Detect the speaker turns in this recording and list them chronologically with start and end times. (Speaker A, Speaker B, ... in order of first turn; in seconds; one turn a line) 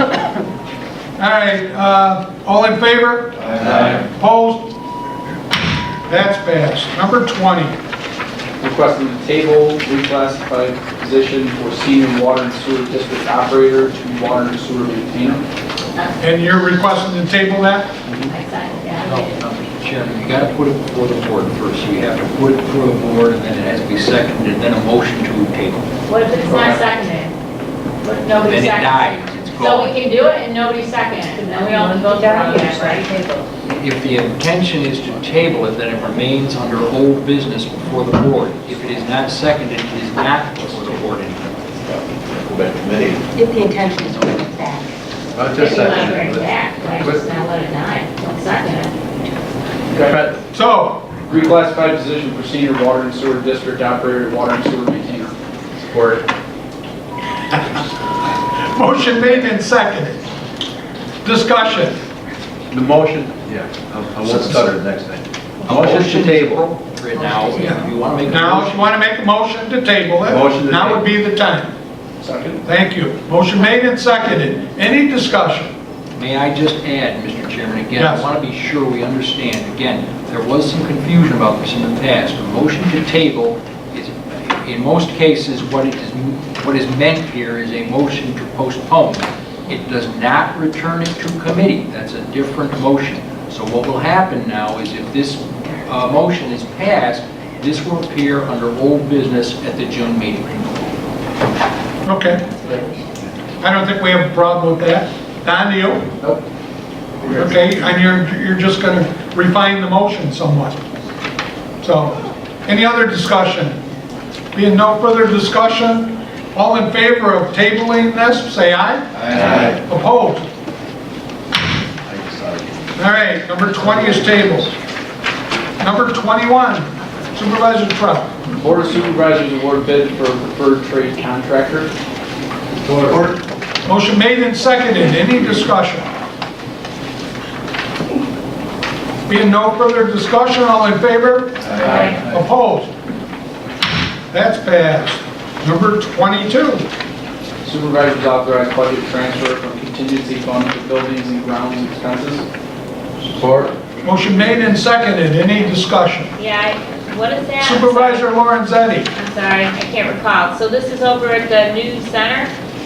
Speaker A: 1.2-4.7
Speaker A: 6.1-7.8
Speaker B: 8.6-15.5
Speaker A: 16.2-17.9
Speaker B: 18.1-18.3
Speaker C: 18.3-19.3
Speaker D: 19.0-25.9
Speaker C: 26.1-27.3
Speaker B: 26.5-26.8
Speaker C: 28.0-33.2
Speaker D: 28.4-29.9
Speaker E: 31.5-33.1
Speaker D: 33.6-41.6
Speaker F: 42.5-43.2
Speaker E: 43.3-44.9
Speaker F: 45.4-46.4
Speaker C: 45.6-48.9
Speaker B: 49.9-50.2
Speaker F: 50.0-50.4
Speaker A: 50.5-51.1
Speaker B: 51.3-55.3
Speaker F: 55.8-56.2
Speaker A: 58.7-60.2
Speaker A: 61.2-62.0
Speaker F: 62.7-66.6
Speaker D: 64.3-64.7
Speaker D: 65.7-69.0
Speaker A: 67.5-71.7
Speaker F: 70.3-71.0
Speaker B: 72.2-72.6
Speaker A: 72.7-75.7
Speaker D: 76.2-100.6
Speaker A: 78.0-78.3
Speaker A: 102.0-102.5
Speaker A: 103.6-106.1
Speaker A: 107.3-110.8
Speaker A: 111.8-113.8
Speaker A: 114.5-120.5
Speaker F: 119.5-119.8
Speaker F: 122.1-122.9
Speaker A: 123.0-124.7
Speaker A: 125.8-128.4
Speaker B: 128.6-131.9
Speaker F: 133.0-133.3
Speaker A: 133.8-136.1
Speaker A: 139.3-142.9
Speaker A: 144.3-146.8
Speaker B: 147.6-152.4
Speaker F: 153.4-153.7
Speaker A: 154.0-156.3
Speaker C: 156.4-158.2
Speaker A: 157.6-159.1
Speaker C: 159.1-162.5